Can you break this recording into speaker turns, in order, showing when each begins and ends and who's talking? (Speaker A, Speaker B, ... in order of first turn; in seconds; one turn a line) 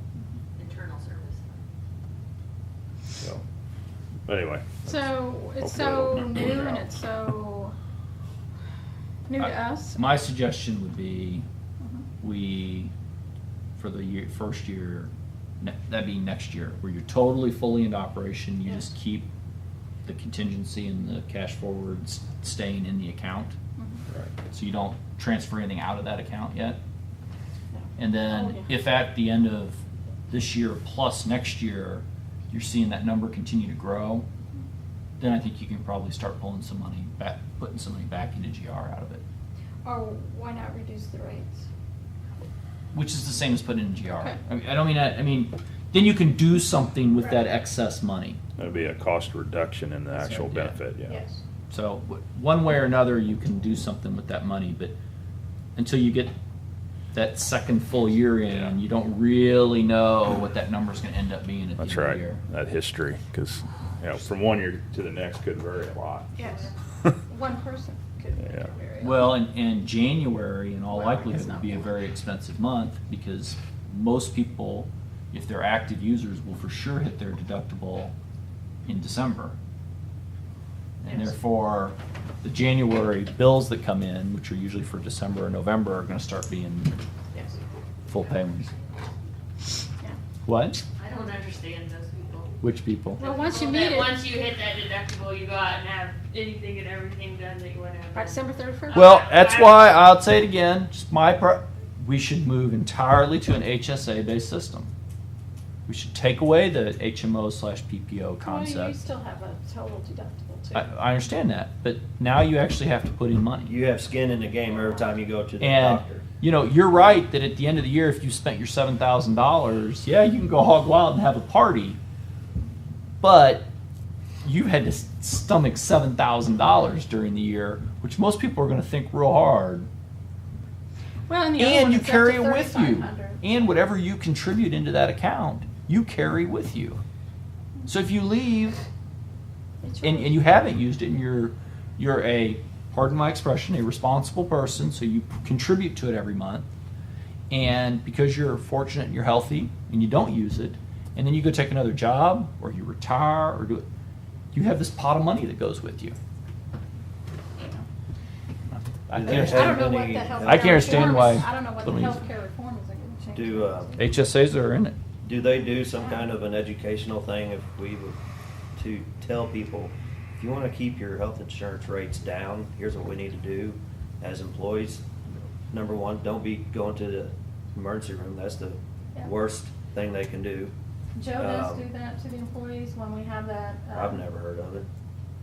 Speaker A: 0.6-1.6
Speaker B: 4.3-5.0
Speaker C: 4.8-7.8
Speaker B: 5.6-6.9
Speaker C: 9.3-10.0
Speaker D: 9.4-11.4
Speaker D: 12.2-12.9
Speaker D: 13.8-19.3
Speaker D: 20.1-23.6
Speaker C: 23.8-24.0
Speaker D: 24.3-26.8
Speaker C: 27.7-28.7
Speaker D: 28.0-34.3
Speaker D: 35.2-39.2
Speaker C: 39.8-41.7
Speaker D: 42.9-48.4
Speaker C: 44.1-44.4
Speaker B: 48.6-51.2
Speaker D: 50.2-50.8
Speaker C: 51.1-51.4
Speaker D: 51.7-55.0
Speaker D: 55.8-56.4
Speaker D: 57.1-62.4
Speaker B: 58.5-58.8
Speaker B: 61.8-66.4
Speaker C: 66.4-66.7
Speaker A: 66.5-66.7
Speaker C: 67.3-69.4
Speaker B: 68.4-68.7
Speaker D: 69.0-78.1
Speaker C: 70.9-71.9
Speaker D: 78.9-79.6
Speaker D: 81.0-87.0
Speaker C: 81.1-81.3
Speaker D: 88.1-88.7
Speaker D: 90.5-90.8
Speaker A: 91.0-92.5
Speaker D: 92.6-93.2
Speaker A: 93.2-99.9
Speaker C: 93.2-94.3
Speaker C: 98.1-99.0
Speaker D: 98.9-104.9
Speaker D: 105.9-109.0
Speaker C: 108.4-110.9
Speaker D: 110.7-113.7
Speaker E: 113.7-116.2
Speaker D: 115.6-122.0
Speaker D: 123.2-123.7
Speaker D: 124.4-129.9
Speaker C: 131.3-133.5
Speaker D: 131.6-137.0
Speaker D: 137.9-138.8
Speaker C: 139.8-140.5
Speaker D: 140.0-146.7
Speaker D: 147.5-153.9
Speaker D: 154.5-156.2
Speaker C: 157.6-157.8
Speaker D: 158.7-159.9
Speaker E: 159.1-161.3
Speaker C: 159.3-164.2
Speaker D: 160.4-162.2
Speaker E: 163.3-163.9
Speaker D: 164.0-164.9
Speaker E: 165.2-168.2
Speaker E: 168.8-175.1
Speaker E: 175.7-180.7
Speaker C: 181.2-184.2
Speaker E: 181.3-181.9
Speaker E: 183.9-184.9